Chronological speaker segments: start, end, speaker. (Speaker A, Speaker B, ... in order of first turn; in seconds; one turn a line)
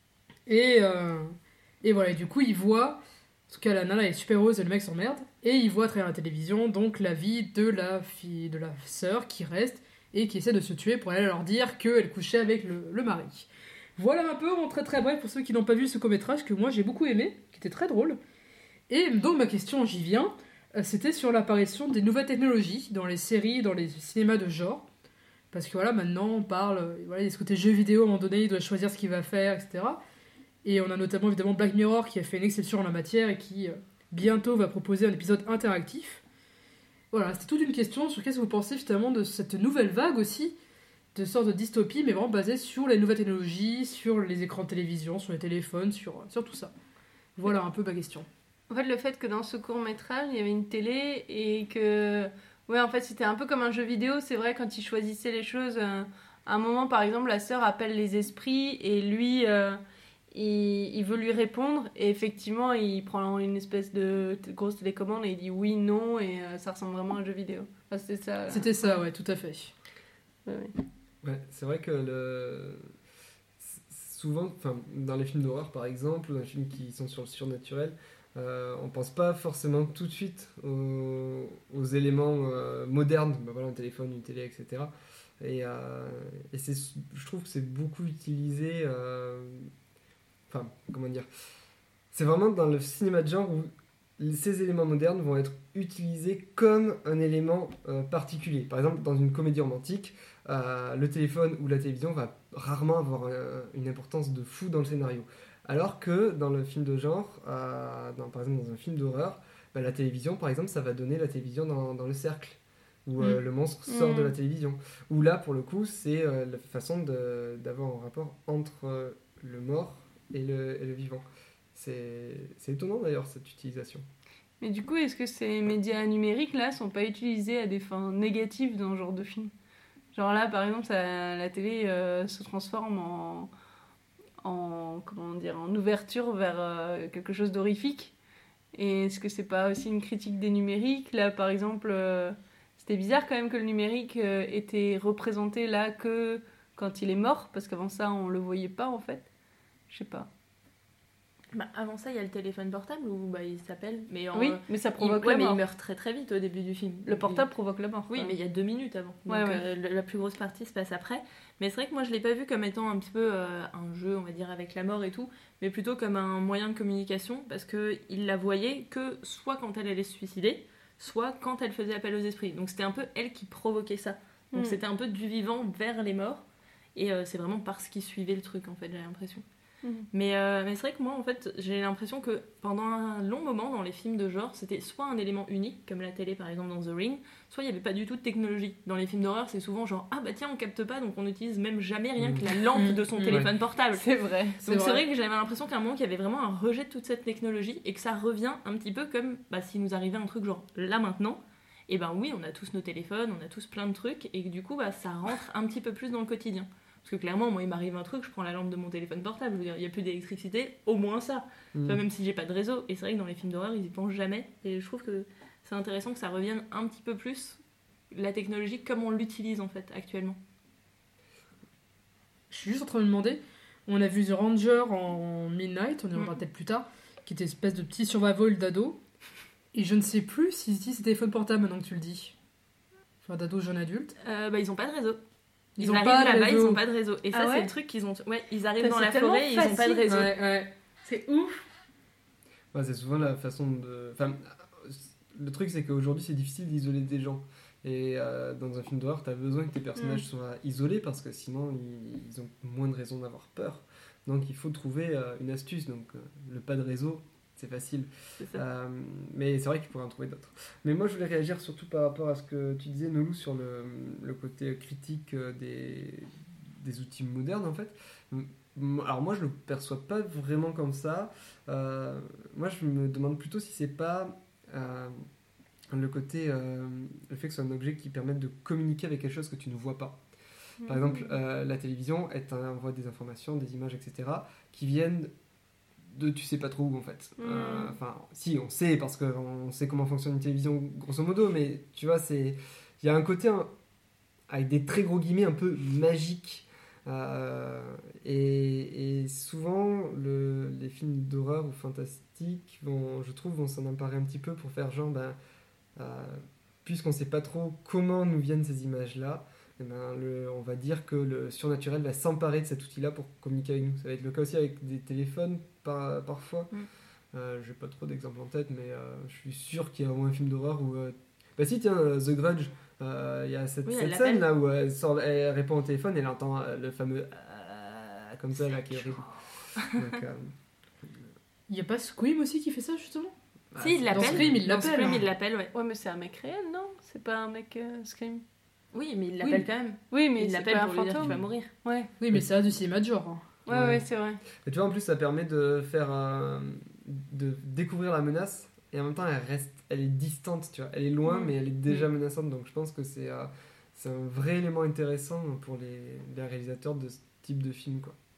Speaker A: 0.5-18.2
Speaker A: 18.9-24.9
Speaker A: 25.5-30.0
Speaker A: 30.6-36.2
Speaker A: 37.1-40.5
Speaker A: 41.1-46.7
Speaker A: 47.4-48.3
Speaker B: 48.7-59.8
Speaker B: 60.3-69.0
Speaker A: 68.5-69.7
Speaker B: 70.5-70.7
Speaker C: 71.2-72.9
Speaker C: 73.6-89.7
Speaker C: 90.5-91.3
Speaker C: 92.1-124.0
Speaker B: 113.8-114.3
Speaker B: 124.6-129.5
Speaker B: 130.1-133.5
Speaker B: 134.4-138.1
Speaker B: 138.7-149.2
Speaker B: 149.9-150.3
Speaker D: 151.5-157.4
Speaker B: 154.3-155.6
Speaker B: 157.1-158.4
Speaker D: 158.1-179.4
Speaker B: 159.3-159.6
Speaker B: 174.5-174.8
Speaker D: 180.1-194.1
Speaker A: 192.7-193.5
Speaker B: 193.9-194.6
Speaker D: 194.6-217.6
Speaker A: 194.6-195.0
Speaker C: 211.7-212.0
Speaker D: 218.1-220.4
Speaker A: 222.5-229.0
Speaker A: 229.7-232.3
Speaker A: 233.2-234.1
Speaker D: 234.2-235.2
Speaker A: 235.8-236.8
Speaker D: 235.8-240.3
Speaker B: 237.3-237.7
Speaker B: 238.8-240.2
Speaker A: 240.1-240.7
Speaker B: 241.0-241.6
Speaker C: 242.7-275.1
Speaker B: 250.0-250.2
Speaker C: 275.9-280.2
Speaker B: 280.8-281.3
Speaker C: 280.9-285.3
Speaker C: 286.1-293.7
Speaker B: 287.4-287.9
Speaker C: 294.5-305.4
Speaker C: 305.9-316.7
Speaker C: 317.3-329.2
Speaker D: 323.9-324.4
Speaker C: 329.8-330.5
Speaker A: 331.7-333.3
Speaker C: 333.7-334.6
Speaker D: 333.8-335.7
Speaker A: 334.1-335.2
Speaker B: 335.7-338.4
Speaker D: 338.9-341.7
Speaker B: 340.1-342.1
Speaker C: 341.2-341.5
Speaker A: 342.2-343.4
Speaker B: 343.6-344.4
Speaker C: 343.7-344.0
Speaker C: 344.6-358.1